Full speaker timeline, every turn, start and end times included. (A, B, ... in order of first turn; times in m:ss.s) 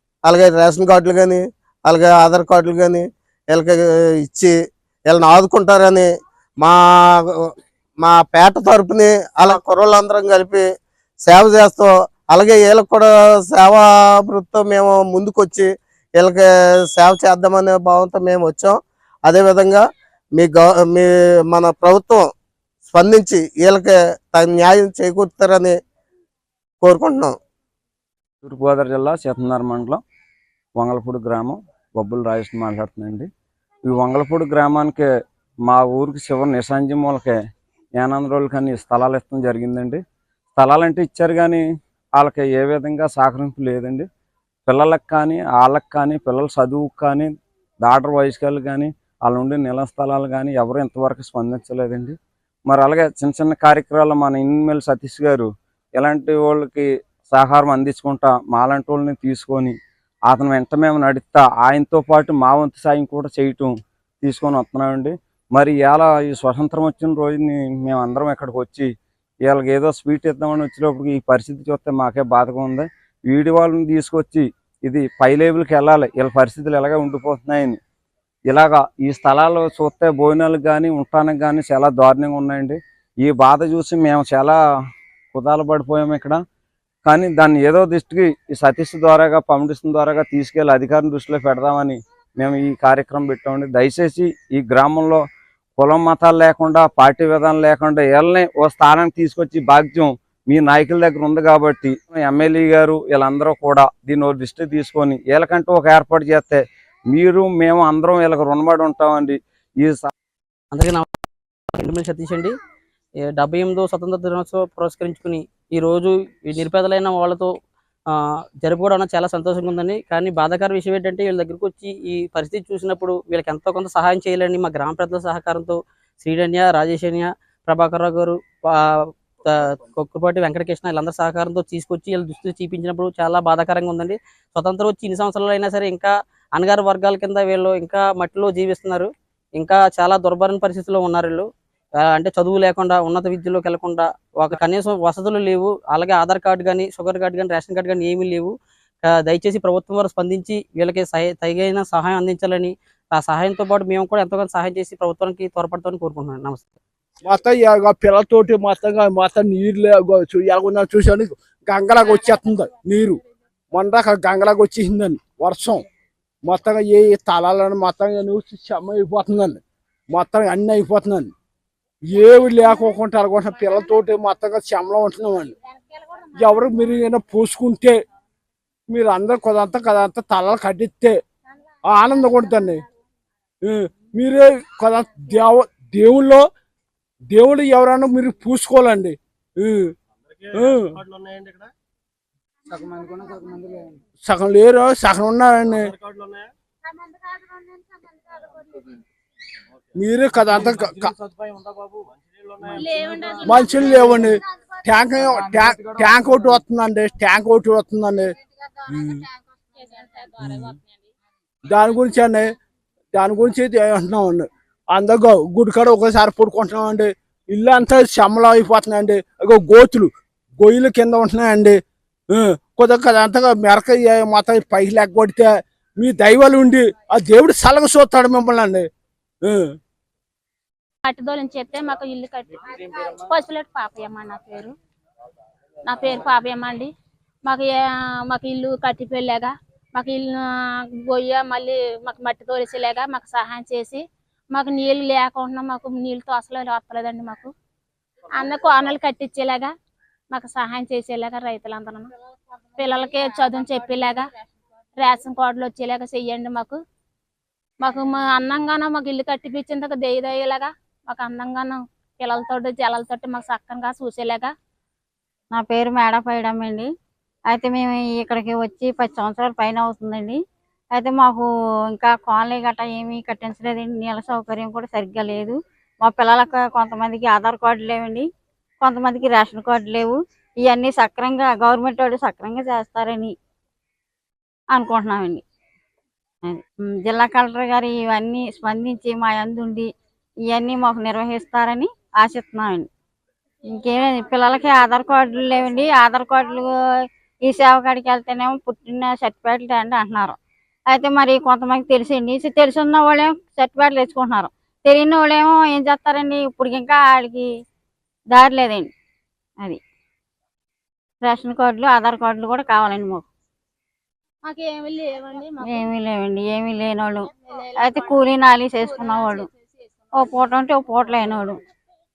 0:00.2-0:04.5 A
0:05.1-0:06.1 A
0:06.6-0:10.6 A
0:11.2-0:19.8 A
0:20.4-0:22.3 A
0:22.9-0:25.7 A
0:26.8-0:27.3 A
0:28.4-0:30.0 B
0:30.8-0:33.3 B
0:33.9-0:35.0 B
0:35.7-0:37.4 B
0:38.0-0:40.0 B
0:40.5-0:41.6 B
0:42.2-0:44.0 B
0:44.7-0:47.3 B
0:47.8-0:52.2 B
0:52.7-0:59.7 B
1:00.3-1:03.7 B
1:04.2-1:08.9 B
1:09.4-1:17.8 B
1:18.5-1:24.6 B
1:25.3-1:26.4 B
1:27.0-1:35.2 B
1:35.8-1:50.1 B
1:50.7-1:51.0 C
1:51.8-1:52.5 C
1:53.4-1:57.4 C
1:58.6-2:05.7 C
2:06.2-2:08.3 C
2:09.4-2:16.0 C
2:16.6-2:19.0 C
2:19.6-2:21.4 C
2:22.2-2:28.5 C
2:29.1-2:36.8 C
2:37.2-2:43.2 D
2:43.7-2:45.8 D
2:46.4-2:51.3 D
2:52.1-2:55.5 D
2:53.6-2:53.9 E
2:55.7-2:57.1 E
2:56.4-2:58.0 D
2:58.9-3:01.2 D
3:01.9-3:02.8 D
3:03.6-3:06.5 D
3:07.3-3:09.9 D
3:10.4-3:11.7 F
3:10.5-3:11.0 D
3:14.2-3:15.9 D
3:15.8-3:16.5 F
3:20.0-3:21.2 D
3:21.2-3:23.1 F
3:22.8-3:24.3 E
3:23.4-3:28.3 D
3:28.9-3:29.2 D
3:29.8-3:31.1 E
3:31.7-3:32.6 D
3:33.1-3:41.8 D
3:42.3-3:48.9 D
3:49.4-3:49.7 D
3:51.0-3:54.7 E
3:55.8-3:56.9 E
3:57.4-4:00.4 E
4:01.1-4:07.5 E
4:08.4-4:09.7 E
4:10.3-4:12.1 E
4:12.8-4:14.2 E
4:15.0-4:16.8 E
4:17.8-4:24.5 E
4:25.5-4:26.9 G
4:27.5-4:30.4 G
4:30.9-4:38.2 G
4:38.8-4:43.3 G
4:44.7-4:45.4 G
4:46.4-4:49.9 G
4:50.5-4:52.9 G
4:53.7-4:56.7 G
4:57.4-5:00.4 G
5:00.9-5:07.5 G
5:08.3-5:08.9 G
5:11.2-5:13.2 G
5:14.4-5:15.9 E
5:15.6-5:17.3 G
5:17.5-5:20.1 E
5:17.8-5:19.5 G
5:20.1-5:21.6 G